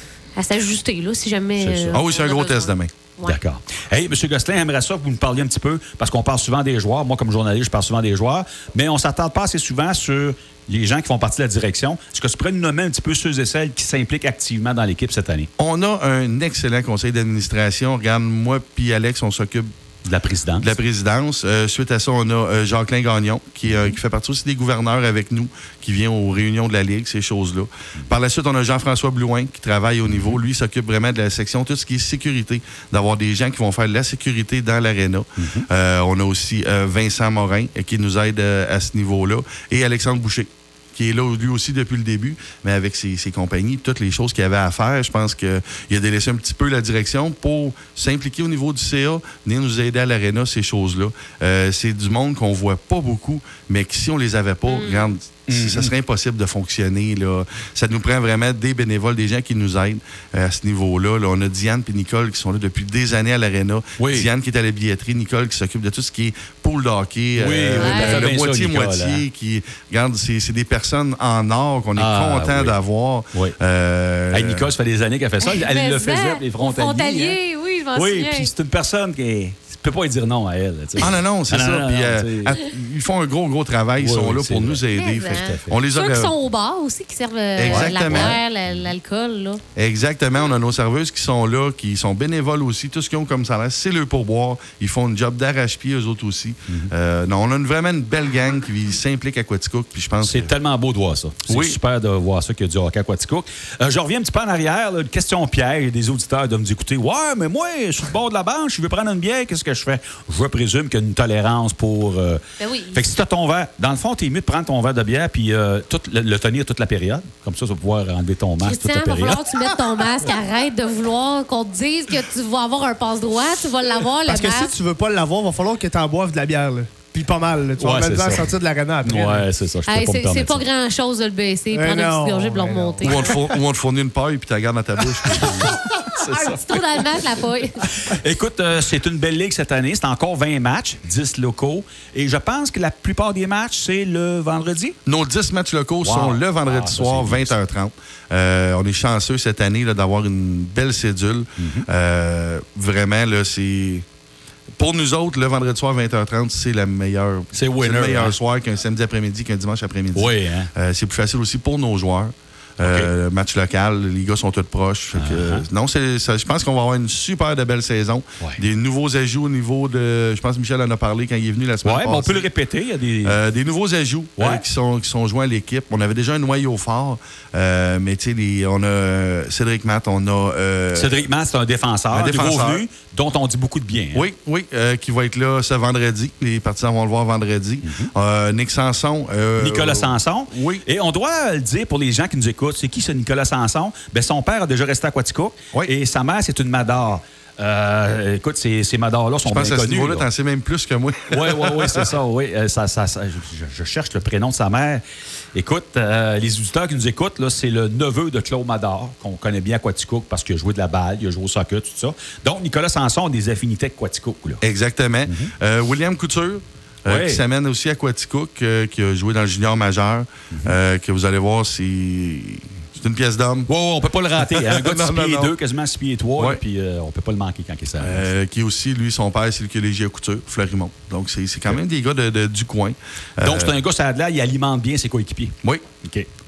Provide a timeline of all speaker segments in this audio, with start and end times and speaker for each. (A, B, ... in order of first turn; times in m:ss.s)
0:00.3-0:03.4 A
0:01.6-0:02.0 B
0:01.9-0:02.9 C
0:03.2-0:15.5 B
0:15.6-0:19.7 C
0:20.0-0:20.8 B
0:20.6-1:14.6 C
0:30.1-0:30.4 B
0:35.4-0:35.7 B
0:54.7-0:55.1 A
0:55.5-0:55.9 B
1:04.0-1:04.3 B
1:07.4-1:09.2 B
1:07.7-1:08.3 A
1:12.0-1:12.8 B
1:14.3-1:17.4 B
1:15.4-1:18.5 A
1:17.9-1:22.6 B
1:21.0-1:26.3 C
1:24.0-1:25.8 B
1:24.9-1:29.6 A
1:27.6-1:28.4 C
1:27.6-1:28.4 B
1:29.7-1:40.5 C
1:40.2-1:52.4 B
1:41.5-1:41.8 C
1:52.6-1:53.0 A
1:52.9-1:59.6 B
1:58.6-2:04.7 A
2:04.2-2:09.4 D
2:07.8-2:10.6 B
2:09.9-2:13.4 A
2:11.7-2:13.3 D
2:13.0-2:16.8 C
2:15.7-2:17.8 A
2:17.8-2:24.9 B
2:25.0-2:34.0 C
2:26.0-2:27.5 B
2:31.6-2:31.9 B
2:34.8-2:52.5 C
2:37.5-2:38.4 B
2:40.1-2:40.7 B
2:42.8-2:43.1 B
2:45.1-2:45.6 B
2:51.8-2:53.4 B
2:53.2-3:01.2 C
2:54.4-2:54.6 B
3:00.9-3:04.3 B
3:02.1-3:02.8 C
3:04.1-3:10.8 C
3:07.8-3:08.1 B
3:09.6-3:20.3 B
3:19.4-3:22.0 C
3:21.3-3:25.0 B
3:25.5-3:34.6 B
3:34.6-3:43.7 C
3:37.1-3:37.4 B
3:40.5-3:40.8 B
3:43.7-3:48.2 B
3:44.4-3:45.5 C
3:48.0-3:53.8 C
3:53.4-3:56.3 B